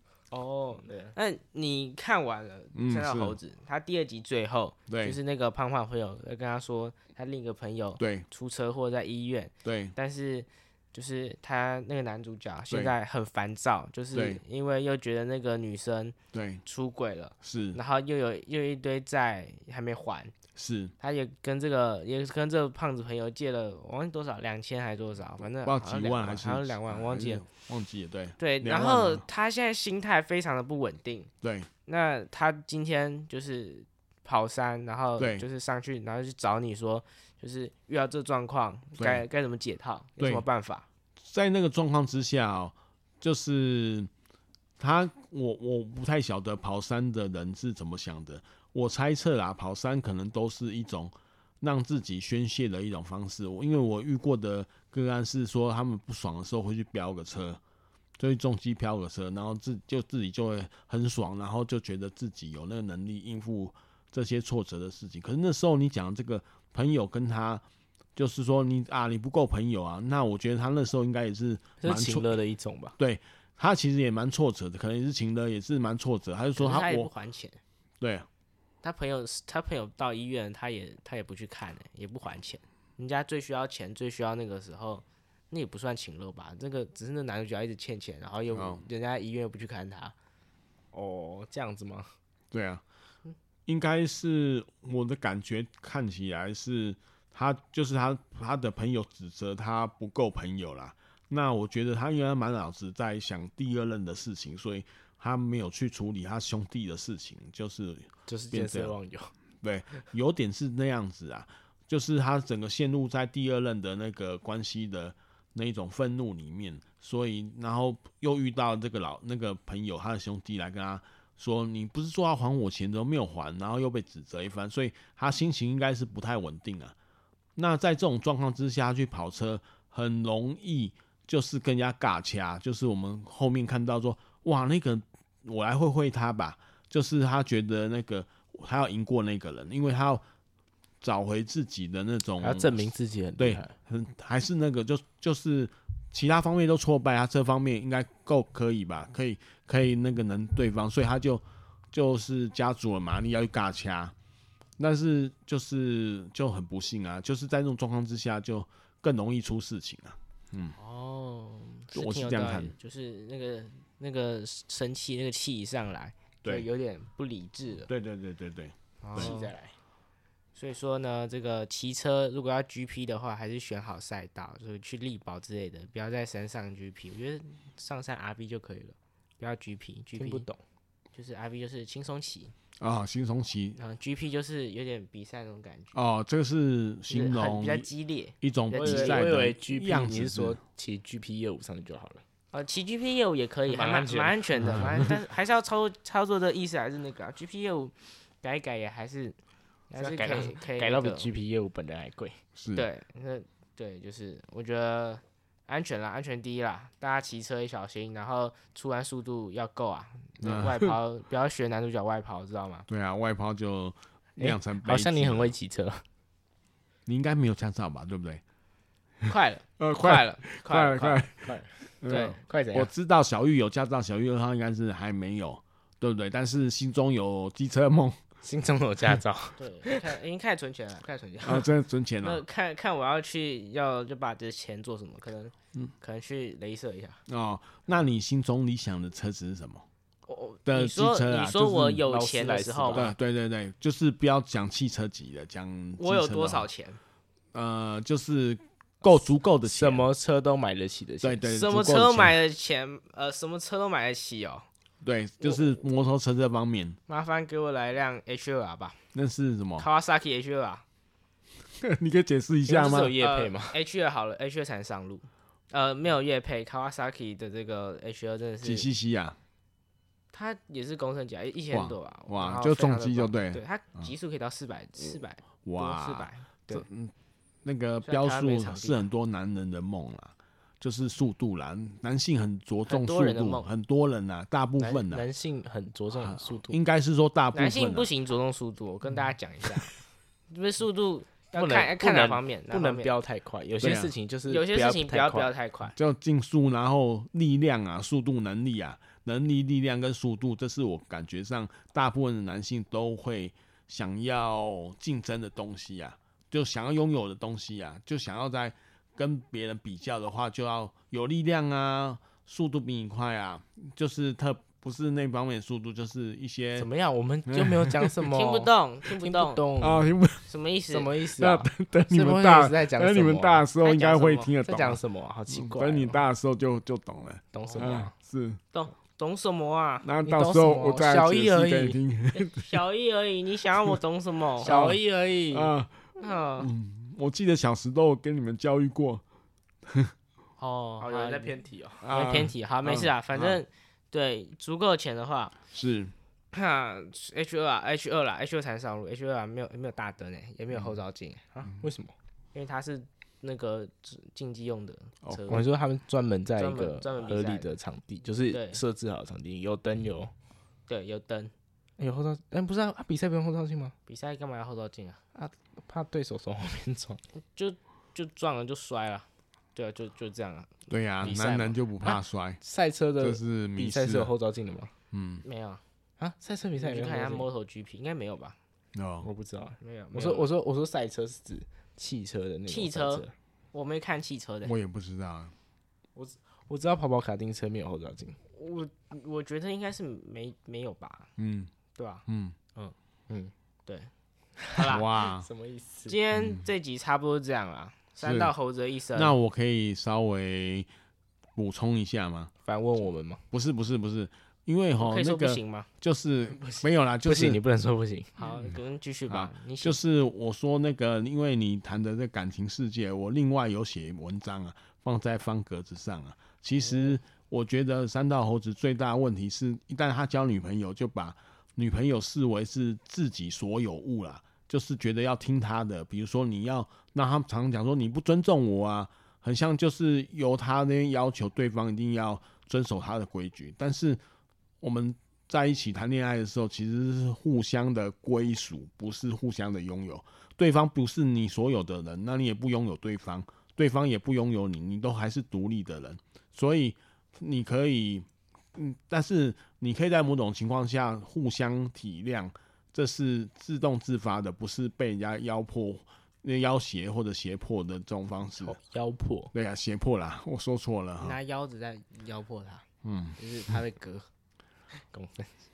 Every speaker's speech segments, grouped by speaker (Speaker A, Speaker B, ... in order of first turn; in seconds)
Speaker A: 0.3-20.3, 21.0-27.4, 28.4-31.3, 31.9-40.9, 76.6-77.6, 78.8-90.1, 160.8-167.9, 169.0-169.5, 170.6-180.4, 181.1-182.5, 183.8-186.0, 187.1-189.3, 192.5-199.3, 199.9-201.3, 202.7-212.9, 219.2-221.3, 222.1-222.4, 229.6-231.7, 232.2-237.2, 240.3-243.1, 246.0-247.0, 251.5-254.7, 255.4-255.8, 257.1-259.0, 259.8-260.8, 263.2-268.9, 270.3-276.8, 278.0-279.1, 282.9-283.7, 287.5-290.0, 290.5-293.1, 294.5-295.9, 318.3-319.6, 320.5-321.1, 323.8-324.5, 328.7-330.1, 332.3-335.2, 336.2-336.7, 340.6-345.6, 346.5-351.7, 352.5-355.7, 356.6-357.6, 358.5-358.8, 360.9-361.5, 364.1-365.2, 367.3-371.8, 375.4-375.8, 376.8-378.6, 379.8-380.5, 382.7-384.7, 388.5-391.3, 391.9-392.2, 394.7-395.1, 396.1-399.3, 405.0-405.9, 408.4-410.0, 461.2-462.8, 463.4-464.2
Speaker B: 0.8-1.1, 71.8-72.9, 90.9-92.1, 108.3-109.3, 142.4-143.7, 169.1-169.7, 180.2-180.6, 188.7-192.2, 193.7-195.1, 199.9-202.4, 214.4-216.0, 221.4-222.9, 228.4-229.9, 242.1-243.1, 249.6-251.4, 262.6-263.8, 284.8-286.8, 291.5-295.5, 316.8-320.1, 320.9-323.6, 324.6-326.2, 327.5-328.1, 330.2-332.0, 334.6-335.6, 341.0-342.0, 351.6-352.1, 355.5-360.3, 362.0-363.9, 365.3-367.2, 372.0-374.9, 376.2-377.5, 379.2-383.3, 386.1-388.4, 394.6-396.1, 402.6-403.4, 407.2-408.4, 458.6-459.5, 465.1-465.5
Speaker C: 2.7-3.4, 4.9-5.2, 8.0-8.2, 9.6-9.9, 14.1-14.4, 16.3-16.6, 17.4-17.8, 20.5-20.9, 25.6-29.2, 31.4-31.7, 35.2-35.4, 39.0-39.2, 40.2-40.5, 41.2-44.1, 44.8-57.6, 58.2-67.6, 68.2-72.3, 73.0-77.1, 78.0-78.3, 88.5-88.8, 92.5-92.8, 93.7-109.0, 109.6-126.9, 127.5-140.2, 141.0-154.1, 154.8-160.8, 161.9-162.7, 167.9-169.3, 182.8-183.8, 185.9-187.9, 188.4-190.6, 194.6-195.1, 202.6-202.9, 210.4-211.0, 212.9-215.5, 217.1-218.4, 219.8-221.5, 222.0-228.2, 231.4-232.4, 237.3-239.8, 240.7-242.0, 242.9-246.7, 247.5-250.1, 251.2-252.3, 255.0-257.0, 259.1-259.9, 261.8-263.2, 268.6-269.4, 271.7-274.1, 275.6-277.1, 277.6-285.2, 286.2-288.1, 293.8-294.1, 295.9-316.9, 317.5-318.2, 319.8-320.5, 321.4-328.6, 330.0-332.8, 334.6-335.0, 335.5-335.9, 336.6-339.2, 339.9-340.1, 342.0-343.6, 345.7-346.1, 370.9-372.6, 373.2-374.3, 375.1-375.4, 378.9-379.3, 384.6-385.5, 391.4-391.7, 392.3-392.6, 394.9-395.5, 396.4-396.6, 398.2-398.5, 399.1-400.9, 401.6-402.5, 403.5-407.6, 409.3-434.2, 434.8-458.8, 459.5-461.4, 463.0-463.4